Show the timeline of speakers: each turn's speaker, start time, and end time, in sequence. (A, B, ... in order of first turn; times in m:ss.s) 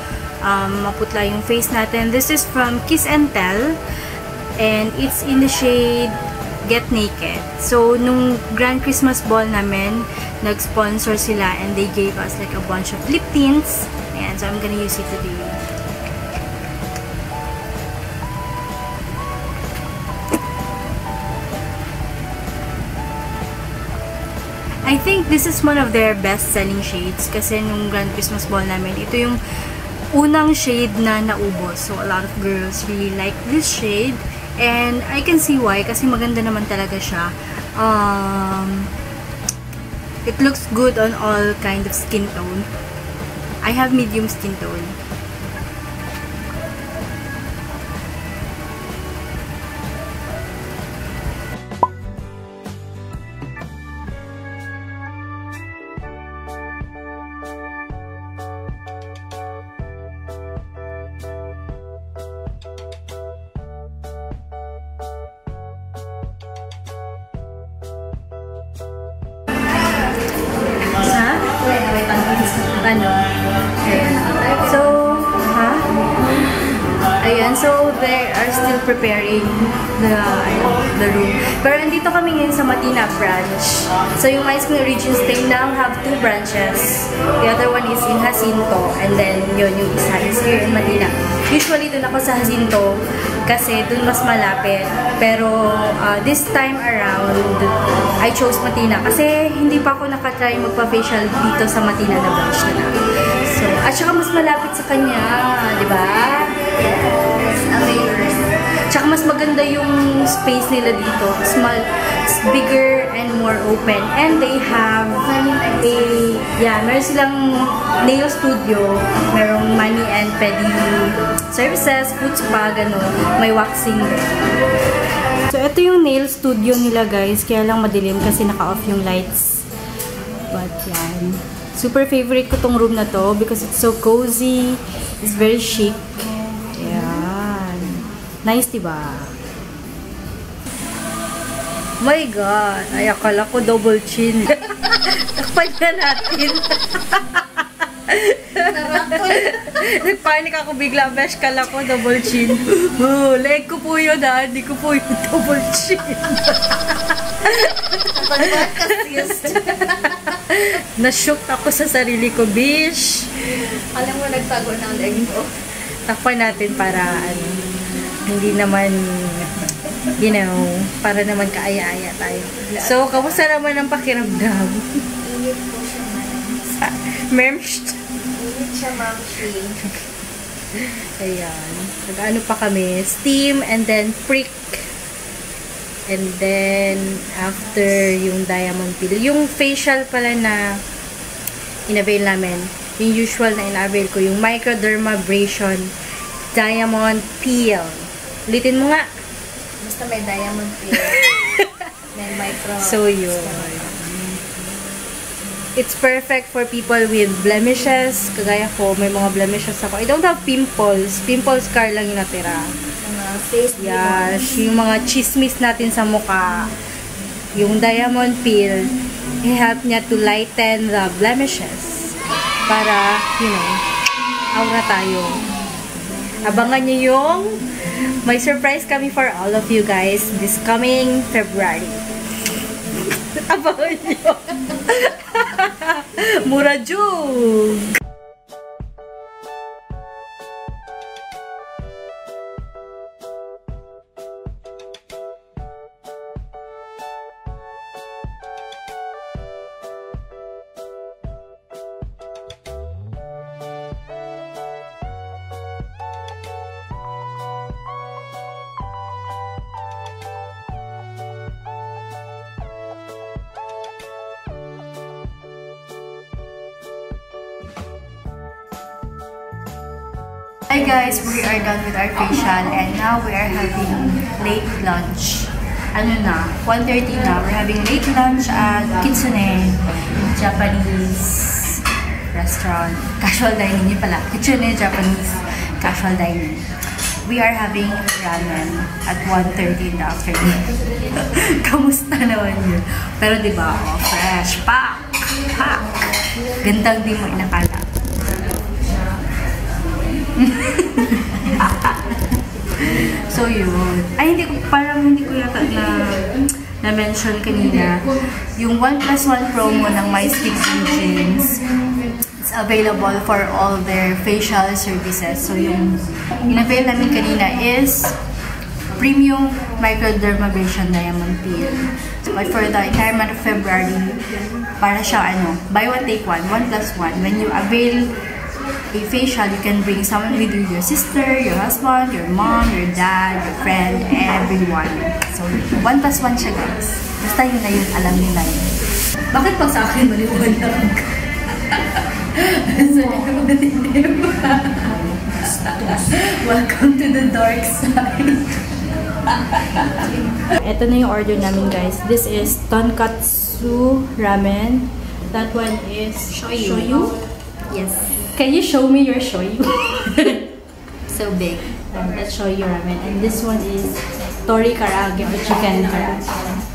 0:00.4-0:03.8 A
0:04.6-0:15.6 A
0:24.8-0:29.4 A
0:30.1-0:38.9 A
0:40.2-0:42.7 A
0:43.6-0:45.0 A
1:10.9-1:11.5 A
1:11.6-1:12.7 B
1:12.8-1:13.2 A
1:13.8-1:15.9 A
1:17.2-1:46.6 A
1:46.6-1:48.5 B
1:48.9-2:04.6 A
1:55.2-1:56.0 B
2:05.4-2:09.7 A
2:10.5-2:16.1 A
2:16.7-2:19.4 A
2:22.0-2:43.6 A
2:28.6-2:29.6 B
2:38.0-2:40.2 B
2:43.6-2:45.5 B
2:45.9-2:55.1 A
2:52.7-2:53.3 B
2:55.2-2:56.8 B
2:56.8-2:58.0 A
2:58.3-2:59.8 B
2:59.8-3:00.1 A
3:00.7-3:04.9 A
3:06.1-3:10.8 A
3:11.9-3:15.9 A
3:16.5-3:19.1 A
3:19.8-3:21.3 B
3:21.1-3:21.8 A
3:22.1-3:23.8 B
3:22.8-3:24.4 A
3:25.8-3:32.7 A
3:33.0-3:34.4 B
3:33.8-3:36.7 A
3:37.5-3:43.8 A
3:44.5-3:45.4 A
3:46.4-3:52.1 A
3:53.0-3:58.0 A
4:30.7-4:56.0 A
4:56.6-4:57.9 A
5:00.3-5:18.2 A
5:18.9-5:28.2 A
5:28.9-5:38.7 A
5:39.3-5:57.1 A
5:56.3-5:57.1 B
5:57.7-5:58.2 B
5:58.2-6:00.5 A
6:01.1-6:01.7 B
6:01.7-6:06.6 A